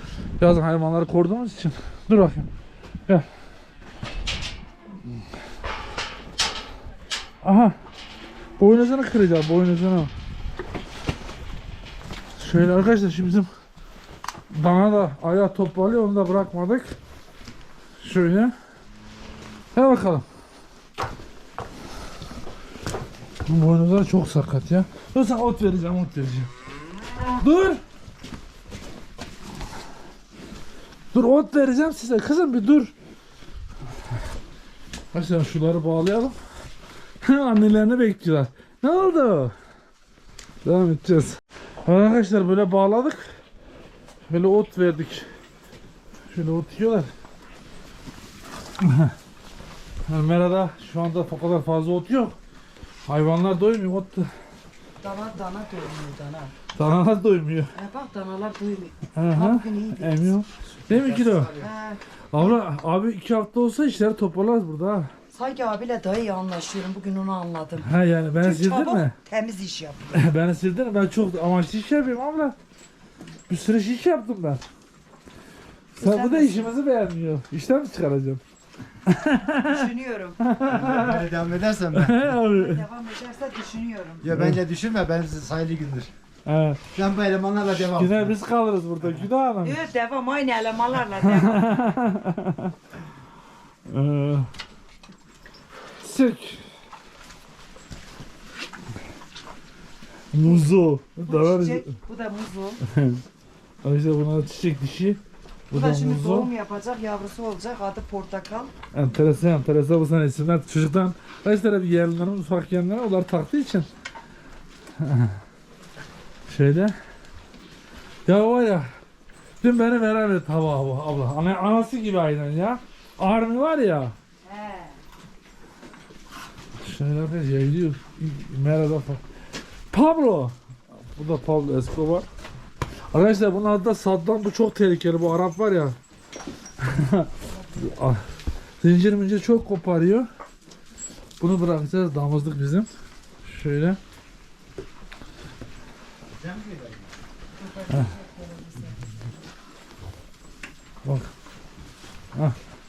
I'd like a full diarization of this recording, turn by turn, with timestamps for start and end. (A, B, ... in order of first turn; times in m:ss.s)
0:00.4-0:02.5 A
0:07.4-0:07.8 A
0:08.6-0:10.1 A
0:12.4-0:13.5 A
0:14.5-0:17.0 A
0:18.0-0:18.5 A
0:19.7-0:20.2 A
0:23.4-0:26.5 A
0:27.3-0:27.8 A
0:31.1-0:32.9 A
0:35.1-0:36.4 A
0:37.2-0:39.5 A
0:40.6-0:43.3 A
0:44.3-0:45.3 A
0:46.3-0:47.1 A
0:48.8-0:49.1 A
0:50.1-0:52.4 A
0:53.1-0:54.3 A
0:55.0-0:56.5 B
0:56.7-0:57.7 A
0:57.7-1:00.3 B
0:59.1-1:01.5 A
1:00.9-1:01.7 C
1:01.6-1:02.6 B
1:02.3-1:05.1 A
1:05.3-1:10.2 B
1:07.8-1:09.1 A
1:10.1-1:12.6 A
1:13.5-1:14.6 A
1:16.0-1:16.7 B
1:16.0-1:18.4 A
1:19.0-1:19.8 A
1:19.6-1:20.4 B
1:20.4-1:21.3 A
1:20.6-1:22.3 C
1:21.9-1:22.8 A
1:22.3-1:24.2 B
1:24.2-1:26.1 C
1:24.3-1:24.6 A
1:26.4-1:26.8 A
1:26.9-1:28.4 C
1:27.7-1:29.8 A
1:29.6-1:31.7 B
1:31.2-1:32.7 A
1:33.9-1:34.5 A
1:36.0-1:36.7 A
1:40.3-1:42.0 A
1:41.2-1:42.8 B
1:42.8-1:43.2 A
1:43.8-1:46.5 A
1:45.7-1:48.7 B
1:48.9-1:53.9 A
1:55.0-1:55.4 A
1:56.5-1:56.9 A
1:58.2-1:58.9 A
1:59.6-2:04.1 A
2:04.4-2:05.0 B
2:06.8-2:09.2 A
2:09.9-2:10.5 A
2:11.1-2:12.2 A
2:13.1-2:15.9 A
2:16.8-2:18.3 A
2:18.8-2:20.3 A
2:21.4-2:22.9 A
2:23.4-2:24.0 A
2:26.4-2:27.1 C
2:27.5-2:29.2 B
2:31.0-2:31.3 A